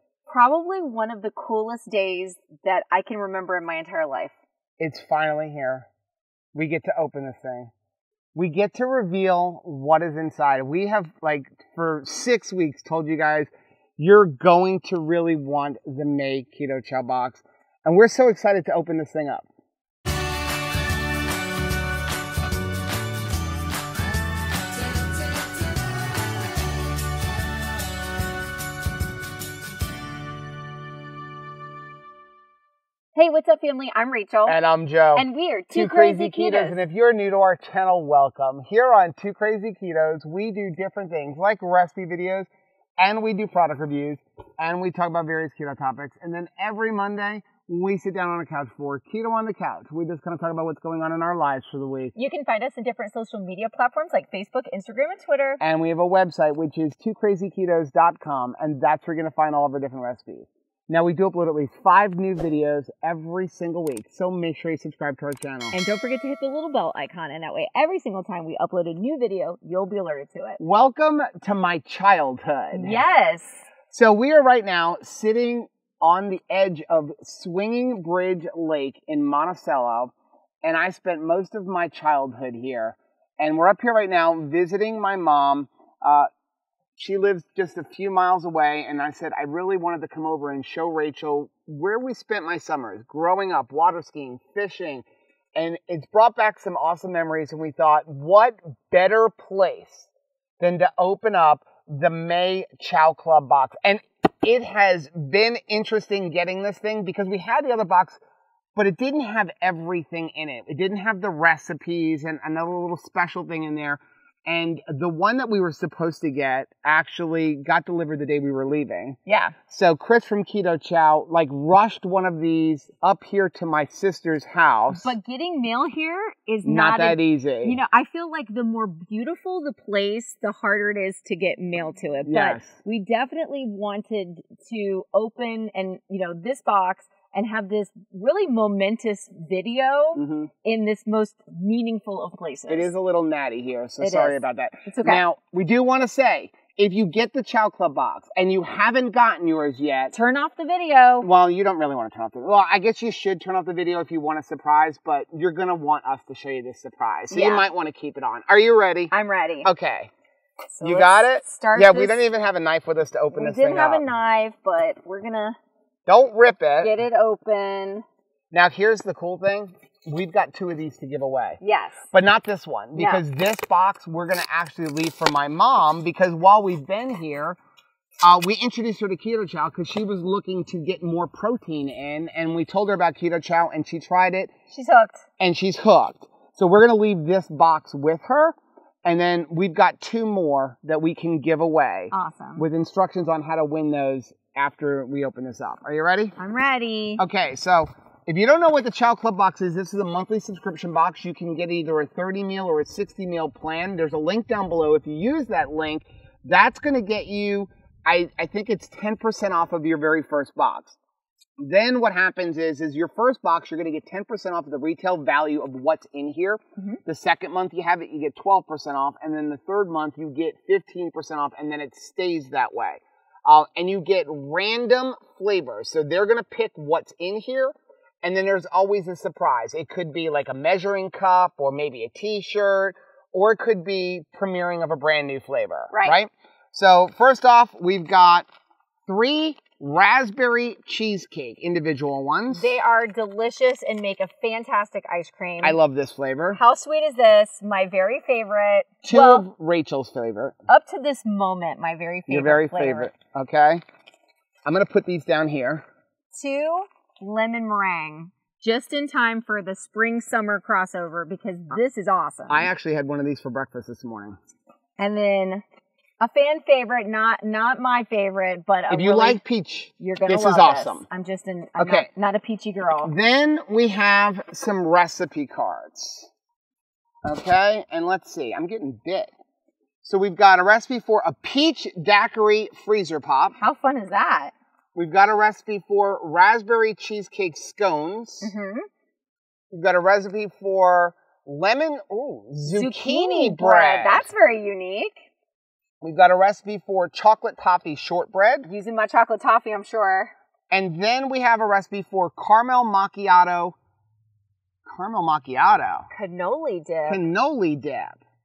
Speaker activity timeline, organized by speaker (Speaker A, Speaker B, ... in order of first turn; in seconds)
Speaker A: 0.3-4.3, 33.1-34.6, 35.1-36.8, 52.1-55.6, 65.7-70.6, 72.7-73.6, 119.3-119.6, 124.9-142.9, 144.0-145.2, 150.1-151.3, 157.3-157.7, 159.1-159.7, 160.7-162.3, 163.3-165.6, 166.8-168.1, 171.6-172.1, 172.9-173.2, 184.7-185.2, 192.1-192.7, 196.4-197.2, 235.9-236.2, 242.5-245.8, 246.5-249.5, 250.7-253.1, 256.3-262.7, 265.0-265.6, 266.2-269.4, 270.0-273.1, 283.6-284.5, 288.4-288.9, 292.6-295.2, 298.7-300.3, 306.1-307.2
Speaker B: 4.8-5.9, 6.5-7.7, 8.3-19.5, 34.5-52.1, 55.6-65.8, 70.6-73.0, 73.9-80.1, 80.6-86.3, 87.0-100.1, 100.6-108.2, 108.8-125.1, 126.7-127.8, 132.3-132.8, 140.2-140.5, 142.7-150.1, 151.2-159.1, 159.6-160.1, 160.8-164.1, 166.1-166.9, 168.5-171.6, 172.1-177.6, 178.2-184.5, 185.4-196.4, 197.2-211.0, 211.6-238.5, 239.1-242.7, 245.6-246.6, 249.0-250.6, 252.3-253.8, 254.7-255.8, 262.5-264.4, 268.9-271.1, 271.8-272.1, 273.0-276.3, 277.2-279.3, 280.0-283.6, 284.9-288.5, 289.7-294.3, 296.0-298.7, 300.7-303.8, 304.9-306.1, 307.1-308.2